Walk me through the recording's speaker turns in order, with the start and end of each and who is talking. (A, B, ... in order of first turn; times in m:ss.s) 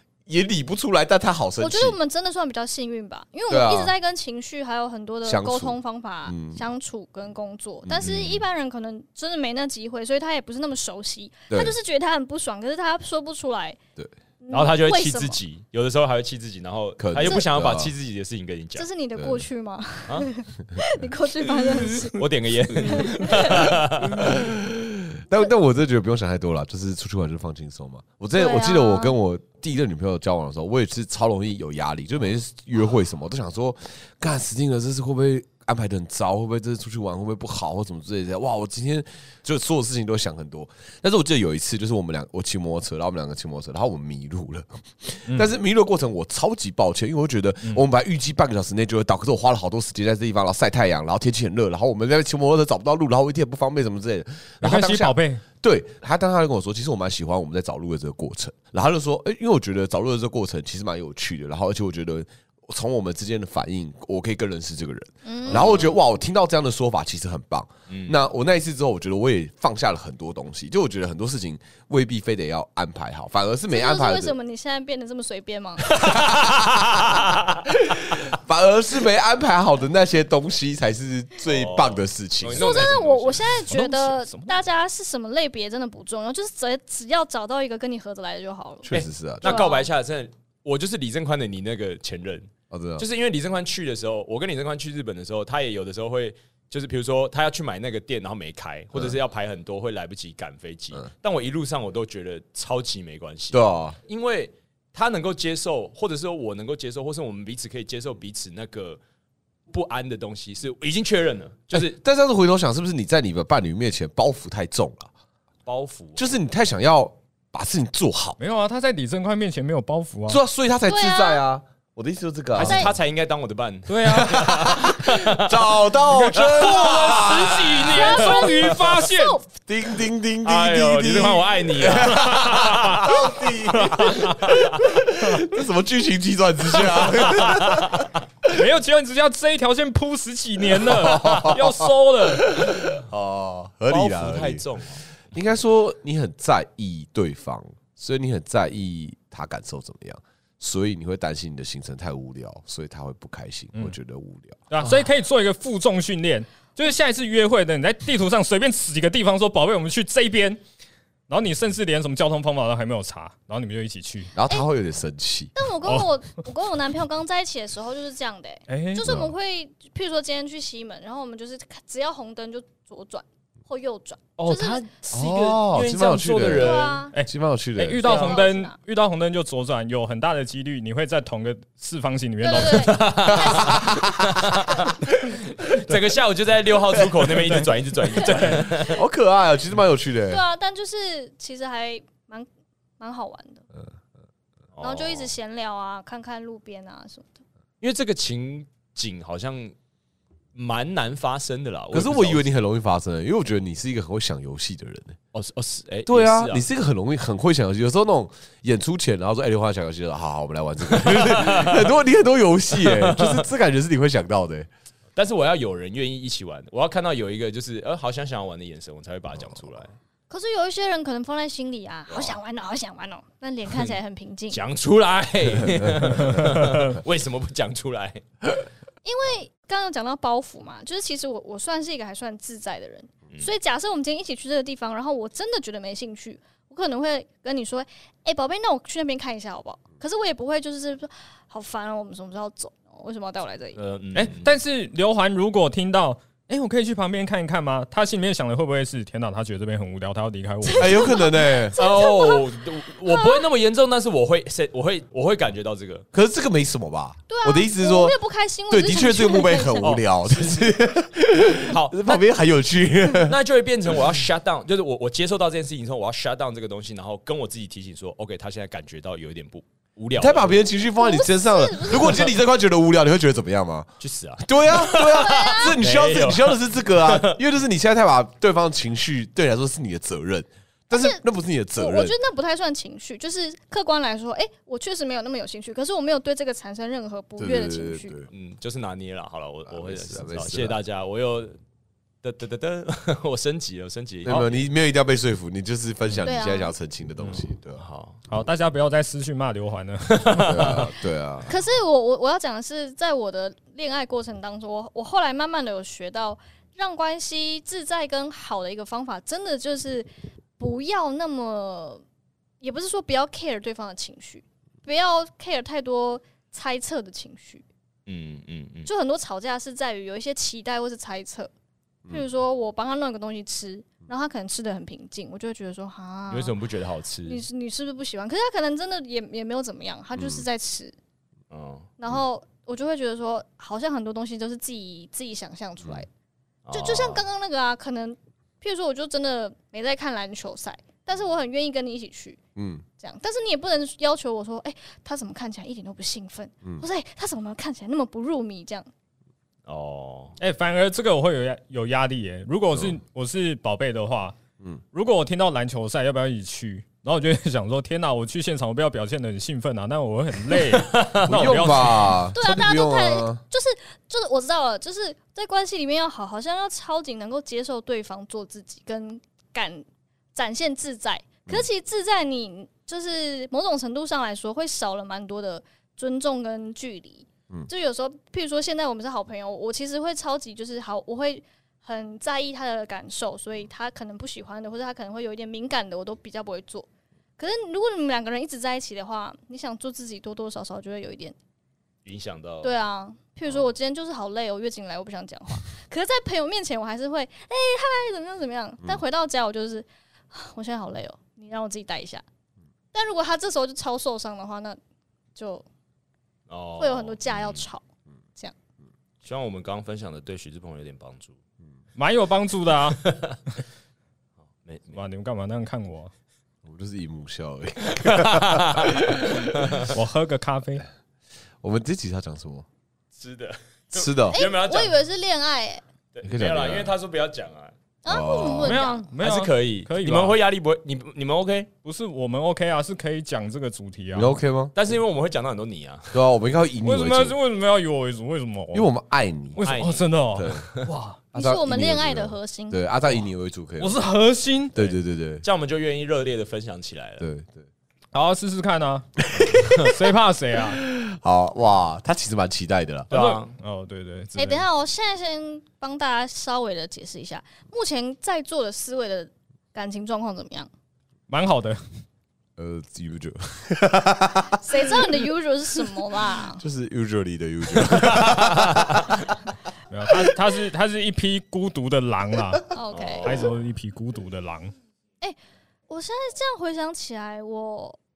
0:00.2-0:02.0 A
0:01.6-0:13.8 B
0:03.5-0:03.9 A
0:05.2-0:06.7 A
0:08.0-0:08.4 C
0:11.5-0:11.8 A
0:14.4-0:15.4 B
0:14.5-0:18.9 C
0:17.0-0:17.9 A
0:17.2-0:17.4 B
0:18.8-0:22.2 B
0:19.2-0:19.4 A
0:21.7-0:22.1 D
0:22.0-0:24.3 C
0:22.8-0:23.7 B
0:22.8-0:23.3 D
0:24.2-1:14.4 A
0:28.4-0:29.2 B
0:45.3-0:45.5 D
0:54.6-0:55.4 D
1:05.2-1:05.9 B
1:05.4-1:05.8 C
1:07.9-1:08.2 C
1:13.7-1:16.1 B
1:15.9-1:17.6 C
1:16.0-1:17.2 A
1:17.7-1:22.9 A
1:21.4-1:23.6 C
1:22.6-1:29.9 B
1:23.6-1:24.6 D
1:28.8-1:29.6 A
1:28.9-1:49.0 C
1:32.7-1:33.1 A
1:43.5-1:44.0 A
1:49.7-1:52.0 C
1:51.7-1:55.1 A
1:55.6-1:56.3 C
1:56.2-1:58.4 A
1:58.4-2:00.4 D
2:00.3-2:02.9 A
2:00.9-2:01.4 B
2:02.6-2:05.7 C
2:02.6-2:02.9 B
2:03.9-2:04.6 D
2:04.1-2:08.0 A
2:06.0-2:09.4 D
2:06.4-2:08.8 C
2:07.9-2:09.5 B
2:09.7-2:18.5 A
2:10.4-2:13.3 C
2:12.0-2:12.9 D
2:13.7-2:14.4 D
2:14.2-2:14.8 C
2:16.9-2:18.1 C
2:18.5-2:22.5 D
2:20.7-2:24.6 A
2:23.9-2:25.0 C
2:25.3-2:34.6 A
2:34.7-2:40.6 D
2:41.3-2:44.3 D
2:44.3-2:45.5 A
2:45.5-2:55.0 B
2:48.7-2:49.2 D
2:49.0-2:49.3 A
2:54.4-2:57.0 C
2:55.1-2:58.2 A
2:56.5-2:57.1 B
2:57.1-3:03.1 D
2:58.0-2:58.8 B
2:58.0-2:58.4 C
3:02.4-3:04.1 B
3:02.6-3:09.0 C
3:03.3-3:04.7 A
3:08.2-3:08.9 B
3:08.2-3:08.6 D
3:08.4-3:10.4 A
3:10.3-3:12.5 B
3:13.0-3:13.6 B
3:14.7-3:15.3 C
3:14.8-3:17.4 B
3:17.8-3:19.7 C
3:20.5-3:22.4 C
3:21.9-3:25.2 A
3:25.3-3:26.6 C
3:26.1-3:34.7 A
3:30.9-3:31.9 C
3:32.7-3:33.5 C
3:35.2-3:39.9 C
3:40.3-3:44.6 B
3:43.7-3:44.0 C
3:44.5-3:48.5 C
3:46.2-3:47.0 D
3:49.0-4:03.8 B
4:03.8-4:04.5 C
4:04.1-4:11.1 D
4:10.6-4:13.4 B
4:10.8-4:11.8 A
4:11.8-4:16.0 C
4:16.1-4:18.2 A
4:17.3-4:20.0 B
4:18.7-4:23.4 A
4:21.6-4:22.2 C
4:23.2-4:30.6 C
4:30.2-4:42.2 A
4:31.0-4:32.3 B
4:34.0-4:37.4 C
4:34.9-4:35.7 B
4:40.9-4:41.2 B
4:41.8-4:48.2 B
4:47.4-4:48.3 A
4:48.3-4:51.6 C
4:49.7-4:50.8 A
4:52.2-4:54.5 C
4:54.2-4:57.8 A
4:56.2-4:56.7 B
4:57.2-4:58.2 C
4:58.3-5:00.8 D
5:00.2-5:00.9 C
5:00.4-5:01.5 A
5:01.5-5:12.0 B
5:12.6-5:17.6 B
5:18.1-5:18.9 C
5:18.8-5:21.5 B
5:22.1-5:26.6 B
5:26.3-5:27.4 C
5:27.2-5:30.9 B
5:30.1-5:30.4 A
5:31.5-5:31.9 C
5:32.0-5:36.1 B
5:36.6-5:37.2 C
5:36.7-5:42.4 B
5:42.6-5:42.8 A
5:43.0-5:48.9 B
5:49.6-5:50.4 C
5:50.4-5:54.4 D
5:54.9-6:02.2 D
6:00.8-6:01.5 C
6:01.2-6:03.4 A
6:02.3-6:26.9 B
6:27.4-6:31.4 B
6:32.0-6:32.8 C
6:32.6-6:42.2 B
6:42.9-6:44.8 B
6:45.4-6:45.6 B
6:46.5-6:47.6 C
6:46.8-6:47.8 B
6:49.2-6:51.4 C
6:52.0-6:53.0 D
6:53.0-6:53.4 C
6:54.6-6:55.0 C
6:54.9-6:56.1 D
6:56.6-6:59.8 A
6:57.9-6:59.9 C
6:59.9-7:00.8 D
7:01.6-7:02.6 A
7:03.2-7:04.9 C
7:03.9-7:04.4 A
7:04.3-7:05.8 B
7:06.1-7:07.7 C
7:06.2-7:06.9 A
7:08.0-7:09.1 B
7:08.1-7:08.8 A
7:08.6-7:10.4 D
7:09.2-7:11.7 C
7:11.8-7:14.4 D
7:14.1-7:14.7 A
7:14.7-7:16.2 C
7:16.1-7:17.4 A
7:16.8-7:18.9 D
7:18.7-7:19.6 A
7:19.6-7:21.2 D
7:19.6-7:20.0 C
7:20.3-7:20.6 A
7:21.3-7:24.0 A
7:21.3-7:22.8 B
7:23.8-7:24.8 D
7:24.7-7:25.4 A
7:25.4-7:27.2 C
7:27.2-7:27.7 A
7:28.1-7:29.1 D
7:29.2-7:29.8 A
7:29.4-7:29.9 C
7:29.6-7:30.8 D
7:30.8-7:33.1 A
7:33.1-7:33.5 C
7:33.1-7:34.6 D
7:34.4-7:40.7 B
7:41.3-7:41.8 D
7:42.6-7:45.3 A
7:44.6-7:46.6 B
7:45.9-7:49.1 A
7:47.8-7:49.1 C
7:49.9-7:52.6 D
7:52.7-7:53.4 B
7:52.9-7:53.4 C
7:53.2-7:54.7 D
7:55.9-7:58.0 B